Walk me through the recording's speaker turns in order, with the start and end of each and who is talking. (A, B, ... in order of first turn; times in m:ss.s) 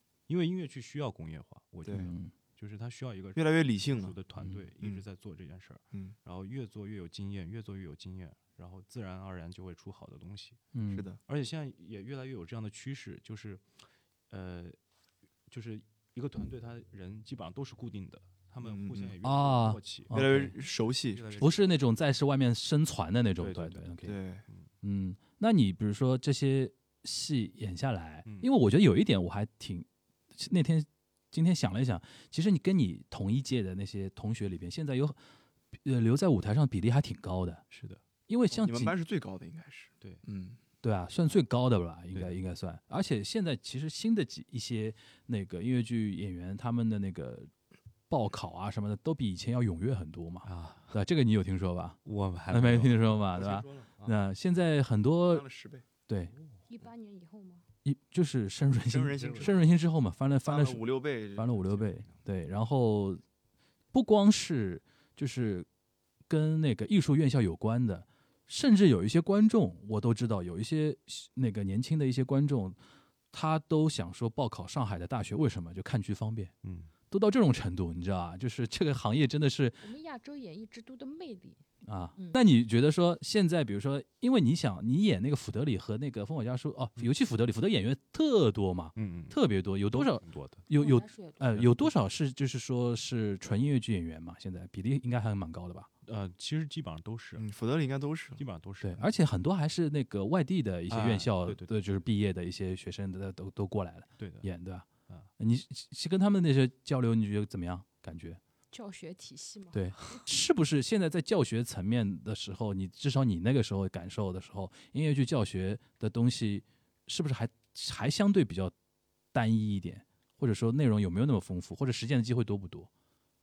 0:00.3-0:10.6 A
0:01.9-0:02.1 B
0:01.9-0:02.3 C
0:03.4-0:04.2 B
0:10.7-0:11.1 C
0:10.9-0:11.2 B
0:11.3-0:13.6 A
0:14.3-0:14.8 A
0:15.5-0:20.2 A
0:18.6-0:19.2 B
0:19.2-0:20.5 C
0:20.1-0:21.4 B
0:21.1-0:21.7 A
0:21.4-0:24.2 C
0:23.4-0:24.7 A
0:24.0-0:24.4 B
0:24.8-0:35.2 C
0:35.8-0:37.6 C
0:37.7-0:38.0 A
0:38.3-0:38.9 C
0:38.5-0:40.6 B
0:40.8-0:47.5 C
0:42.1-0:42.4 A
0:48.1-0:55.4 C
0:50.4-0:51.0 A
0:52.0-0:53.0 A
0:53.3-0:54.2 B
0:55.3-0:55.9 B
0:56.7-0:57.7 D
0:57.8-1:00.8 C
0:58.9-0:59.6 B
0:59.2-0:59.6 A
1:00.4-1:01.9 B
1:01.4-1:03.2 C
1:03.9-1:05.7 C
1:06.3-1:12.8 C
1:13.3-1:16.5 C
1:16.6-1:16.9 A
1:17.1-1:19.8 C
1:19.8-1:21.6 D
1:21.8-1:35.9 C
1:29.0-1:29.4 A
1:29.9-1:30.7 A
1:30.8-1:31.6 D
1:31.5-1:31.9 A
1:36.1-1:37.4 A
1:37.4-1:38.4 B
1:38.4-1:39.1 A
1:38.8-1:44.9 C
1:40.9-1:41.7 A
1:44.2-1:44.5 A
1:45.4-1:48.4 C
1:48.7-1:50.2 D
1:49.7-1:58.7 C
1:59.3-2:02.9 C